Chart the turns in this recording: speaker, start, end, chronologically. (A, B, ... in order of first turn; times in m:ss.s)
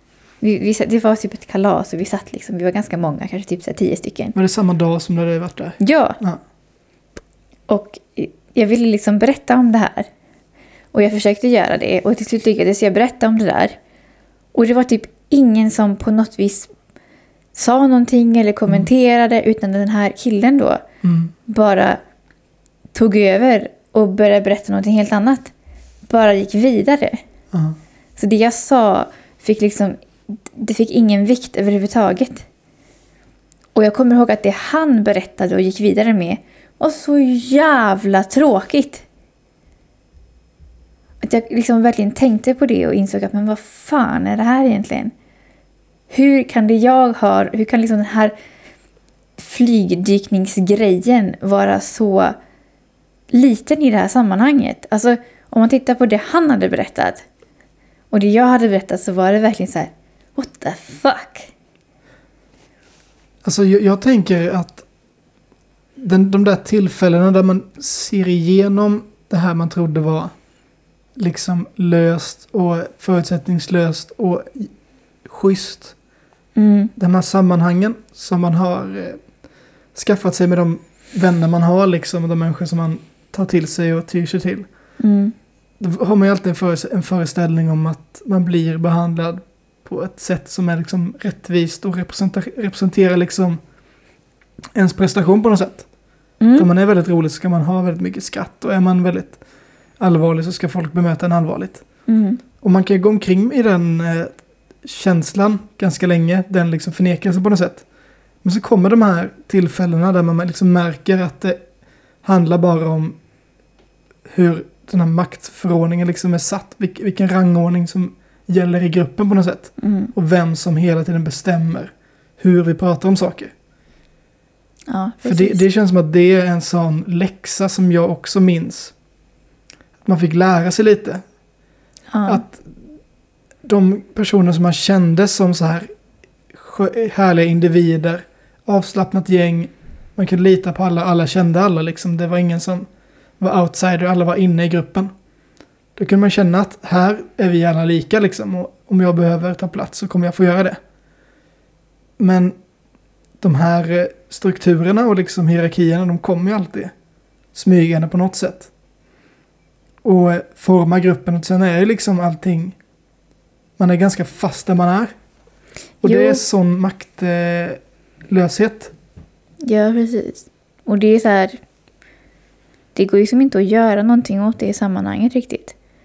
0:00.4-0:04.4 A
0:04.4-0:06.4 B
0:05.8-0:06.2 A
0:07.7-0:10.1 A
0:10.9-0:13.8 A
0:14.5-0:16.7 A
0:17.6-0:20.8 A
0:21.0-0:21.3 B
0:21.5-0:22.0 A
0:22.9-0:25.5 A
0:26.1-0:27.2 A
0:27.5-0:27.8 B
0:28.2-0:32.4 A
0:33.8-0:39.0 A
0:41.2-0:45.1 A
0:46.1-0:48.3 A
0:49.4-0:52.4 A
0:53.3-0:57.2 A
0:58.1-1:01.5 A
1:03.4-1:04.8 B
1:06.0-1:10.3 B
1:11.2-1:14.7 B
1:15.2-1:15.9 B
1:16.6-1:16.9 A
1:17.0-1:19.2 B
1:20.0-1:24.6 B
1:25.0-1:25.4 A
1:25.8-1:33.6 B
1:34.8-1:35.9 B
1:36.4-1:36.7 A
1:36.6-1:39.4 B
1:40.0-1:41.8 B
1:42.1-1:42.4 A
1:42.6-1:47.8 B
1:48.4-1:51.6 B
1:52.2-1:53.2 B
1:54.3-2:03.5 B
1:59.8-2:00.1 A
2:04.9-2:05.6 A
2:05.2-2:08.9 B
2:10.0-2:11.2 B
2:12.1-2:12.4 A
2:12.3-2:12.7 B
2:13.6-2:15.9 B
2:16.5-2:22.9 B
2:23.4-2:25.1 B
2:26.0-2:30.8 B
2:32.2-2:32.6 B
2:33.4-2:36.9 B
2:37.5-2:38.7 B
2:40.0-2:42.8 B
2:43.8-2:45.1 B
2:46.0-2:48.9 B
2:46.0-2:46.4 A
2:49.6-2:51.6 A
2:53.0-2:55.8 A